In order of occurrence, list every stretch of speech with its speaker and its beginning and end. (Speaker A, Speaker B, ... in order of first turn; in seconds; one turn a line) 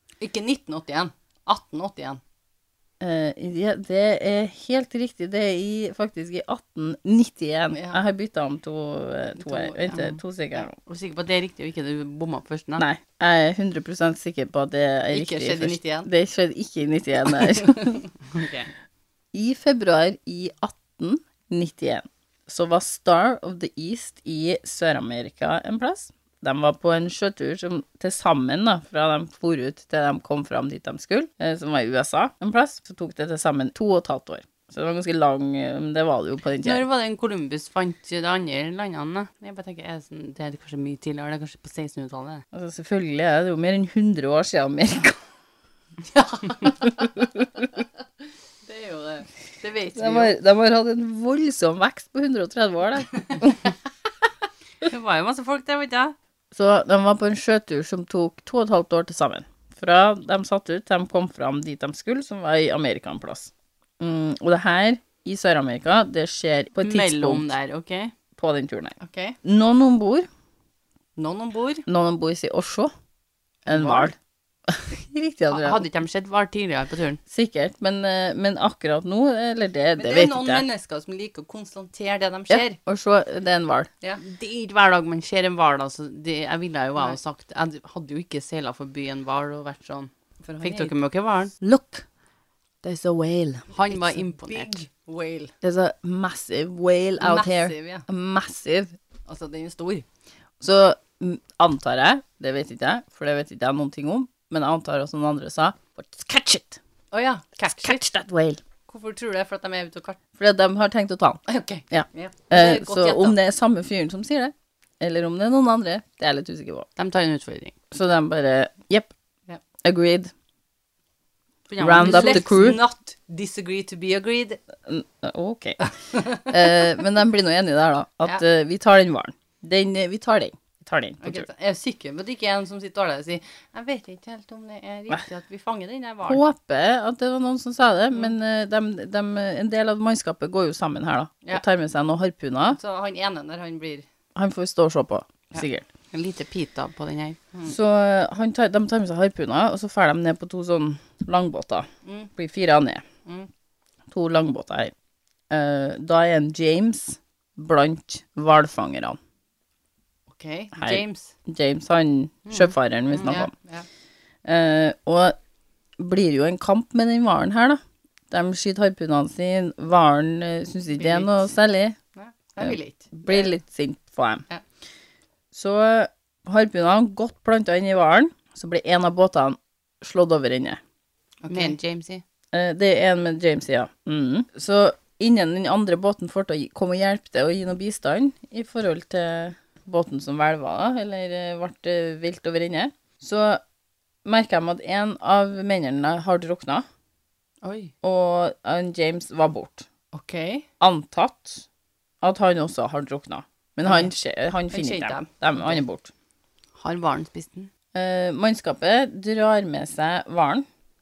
Speaker A: 0.2-2.2
Speaker B: 3.0-10.8
Speaker A: 7.7-8.0
Speaker A: 9.4-10.2
Speaker C: 10.8-12.8
Speaker B: 12.8-18.0
Speaker A: 15.1-16.1
Speaker C: 18.3-18.7
Speaker B: 19.3-36.8
Speaker C: 36.6-42.4
Speaker B: 42.5-45.2
Speaker A: 46.1-46.8
Speaker B: 46.6-47.7
Speaker A: 48.7-50.3
Speaker B: 50.0-53.7
Speaker C: 54.8-56.2
Speaker B: 56.5-67.5
Speaker C: 66.8-68.1
Speaker B: 68.4-70.3
Speaker A: 69.0-69.4
Speaker A: 71.2-71.8
Speaker B: 71.9-72.9
Speaker B: 73.7-74.2
Speaker C: 73.7-74.1
Speaker B: 74.7-75.8
Speaker C: 75.5-77.2
Speaker B: 77.3-80.6
Speaker A: 80.0-82.8
Speaker B: 82.5-83.9
Speaker C: 84.2-91.5
Speaker A: 90.4-90.9
Speaker B: 91.6-92.1
Speaker B: 92.8-93.7
Speaker C: 93.7-94.9
Speaker A: 93.9-95.5
Speaker B: 95.6-99.0
Speaker A: 97.2-98.0
Speaker A: 99.3-100.0
Speaker B: 100.6-106.8
Speaker A: 107.1-108.0
Speaker B: 107.6-108.6
Speaker A: 108.9-110.2
Speaker B: 110.4-111.4
Speaker A: 111.5-113.3
Speaker B: 111.9-116.9
Speaker C: 117.0-117.8
Speaker B: 117.9-119.1
Speaker B: 119.8-120.3
Speaker C: 121.7-122.8
Speaker B: 121.8-122.8
Speaker A: 121.9-124.6
Speaker B: 124.8-131.5
Speaker A: 131.2-135.2
Speaker C: 135.2-136.4
Speaker B: 136.2-142.8
Speaker A: 142.7-144.1
Speaker B: 144.4-145.9
Speaker C: 146.1-147.6
Speaker B: 147.7-153.1
Speaker A: 152.1-152.3
Speaker B: 154.1-154.9
Speaker B: 155.5-159.2
Speaker A: 160.3-161.2
Speaker B: 160.8-163.5
Speaker A: 163.1-163.9
Speaker B: 164.4-165.4
Speaker B: 166.0-172.0
Speaker A: 171.0-171.3
Speaker A: 172.2-173.5
Speaker B: 172.6-174.4
Speaker B: 175.5-180.8
Speaker A: 181.4-181.8
Speaker C: 181.5-182.2
Speaker B: 182.5-193.6
Speaker B: 194.2-196.9
Speaker A: 197.7-197.9
Speaker B: 198.0-199.9
Speaker A: 200.1-200.7
Speaker B: 200.8-201.7
Speaker B: 202.2-206.1
Speaker A: 204.7-205.3
Speaker C: 206.8-207.7
Speaker B: 207.9-210.7